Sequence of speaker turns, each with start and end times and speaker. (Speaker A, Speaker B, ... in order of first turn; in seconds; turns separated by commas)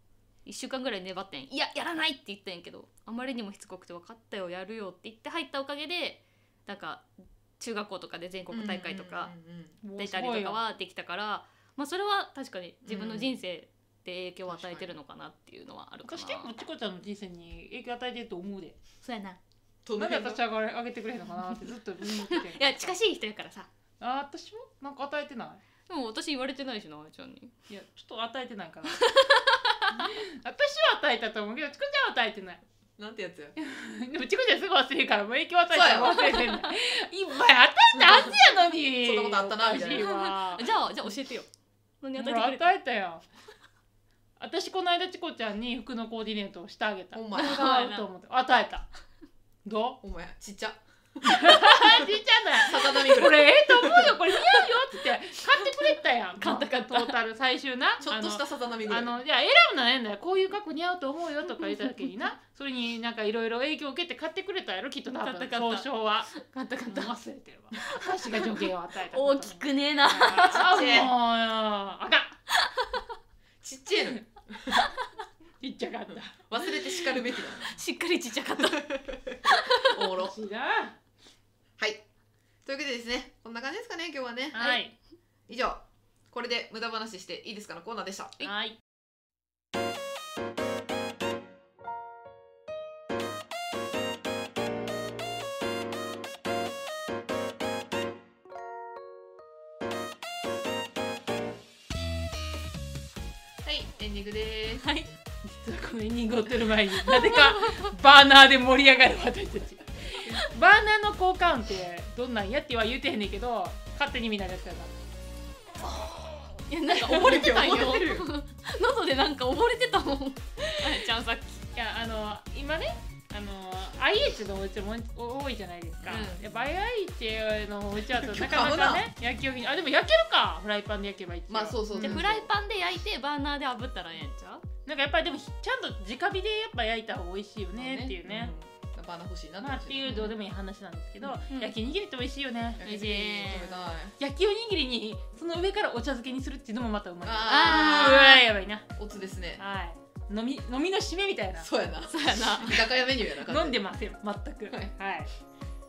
Speaker A: 0.5-7.1, Speaker A: 7.6-9.3, Speaker B: 8.5-9.8, Speaker C: 9.8-10.6, Speaker A: 10.0-16.5, Speaker B: 12.9-13.3, Speaker B: 14.5-14.9, Speaker C: 16.0-18.8, Speaker A: 19.0-19.4, Speaker B: 19.9-20.4, Speaker C: 20.0-22.9, Speaker A: 22.1-23.7, Speaker C: 24.0-25.6, Speaker A: 25.9-27.5, Speaker C: 27.7-29.1, Speaker A: 28.9-30.0, Speaker C: 30.0-32.6, Speaker B: 33.0-33.5, Speaker C: 33.6-40.6, Speaker B: 35.7-36.2, Speaker B: 38.0-38.4, Speaker B: 39.0-40.1, Speaker A: 39.7-41.5, Speaker A: 42.0-42.7, Speaker C: 42.2-43.2, Speaker C: 44.4-48.9, Speaker B: 47.1-47.8, Speaker A: 47.4-48.1, Speaker C: 49.6-50.0, Speaker B: 50.0-54.2, Speaker C: 51.2-66.3, Speaker A: 56.4-57.1, Speaker B: 58.0-59.2, Speaker A: 61.6-62.0, Speaker A: 65.2-67.1, Speaker C: 66.9-72.4, Speaker A: 68.0-71.1, Speaker B: 70.4-71.1, Speaker A: 72.5-73.0, Speaker B: 73.6-74.9, Speaker C: 74.0-74.2, Speaker C: 75.6-76.4, Speaker B: 76.1-77.8, Speaker A: 77.2-80.2, Speaker B: 78.5-80.4, Speaker C: 80.2-81.0, Speaker B: 82.7-84.7, Speaker C: 84.5-84.9, Speaker B: 85.5-88.5, Speaker C: 88.4-88.8, Speaker B: 103.6-104.9, Speaker A: 104.7-105.1, Speaker C: 105.4-114.9, Speaker A: 107.2-107.9, Speaker A: 115.8-121.6, Speaker B: 116.9-118.3, Speaker C: 120.7-121.0, Speaker C: 121.7-132.2, Speaker A: 126.1-126.4, Speaker B: 128.1-129.1, Speaker B: 131.5-132.5, Speaker A: 131.9-134.6, Speaker C: 134.9-138.5, Speaker B: 137.8-140.3, Speaker C: 139.6-142.9, Speaker A: 140.1-140.3, Speaker B: 142.8-144.2, Speaker A: 142.8-143.8, Speaker C: 144.2-148.9, Speaker B: 147.2-148.3, Speaker A: 147.5-148.4, Speaker B: 149.0-149.6, Speaker C: 149.6-151.7, Speaker B: 151.6-153.8, Speaker A: 152.1-152.9, Speaker C: 153.5-155.3